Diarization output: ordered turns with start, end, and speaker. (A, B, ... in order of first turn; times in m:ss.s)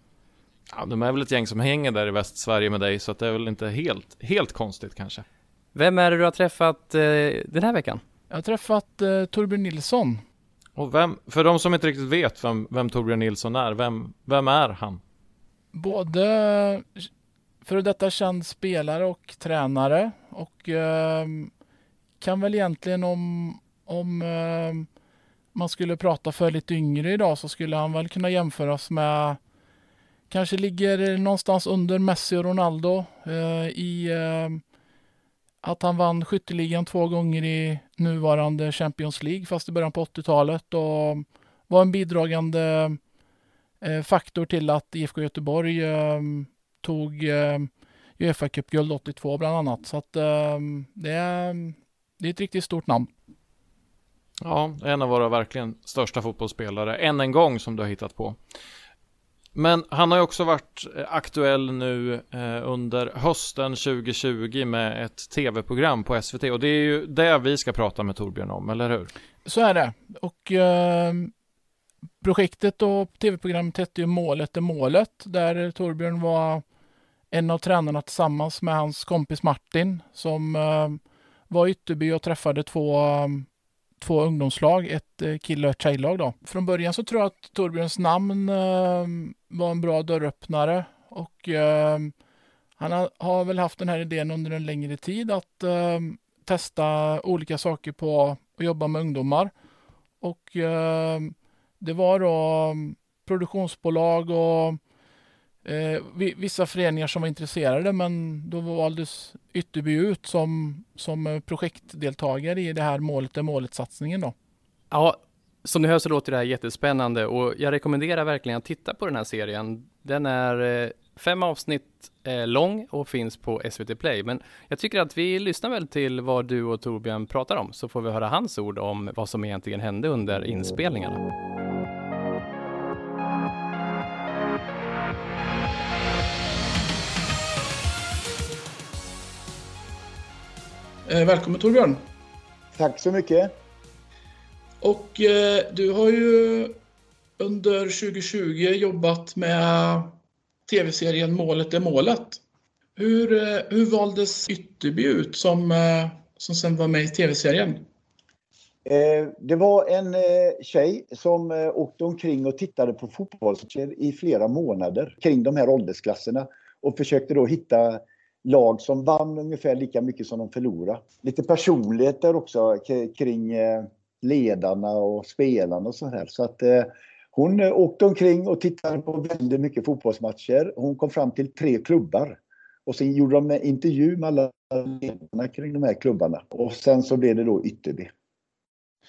0:00.7-0:05.2 A
0:05.8-0:08.0 B
0:08.3-0:10.2 C
0:10.8-0:15.0 A
0:15.7-0:17.1 C
0:17.6-0:21.5 C
0:22.2-0:24.9 C
0:25.5-0:29.4 C
0:30.3-0:34.6 C
0:35.6-0:43.0 C
0:43.8-0:53.1 C
0:54.4-0:58.4 A
0:59.6-1:09.1 A
1:09.4-1:11.3 C
1:12.2-1:16.6 C
1:17.3-1:23.5 C
1:24.0-1:32.1 C
1:32.8-1:39.5 C
1:40.2-1:44.8 C
1:45.6-1:54.4 C
1:54.9-2:11.2 B
2:21.1-2:22.0 C
2:22.8-2:23.5 D
2:24.8-2:26.8 C
2:27.4-2:30.1 C
2:30.7-2:32.4 C
2:33.0-2:37.8 C
2:38.8-3:08.1 D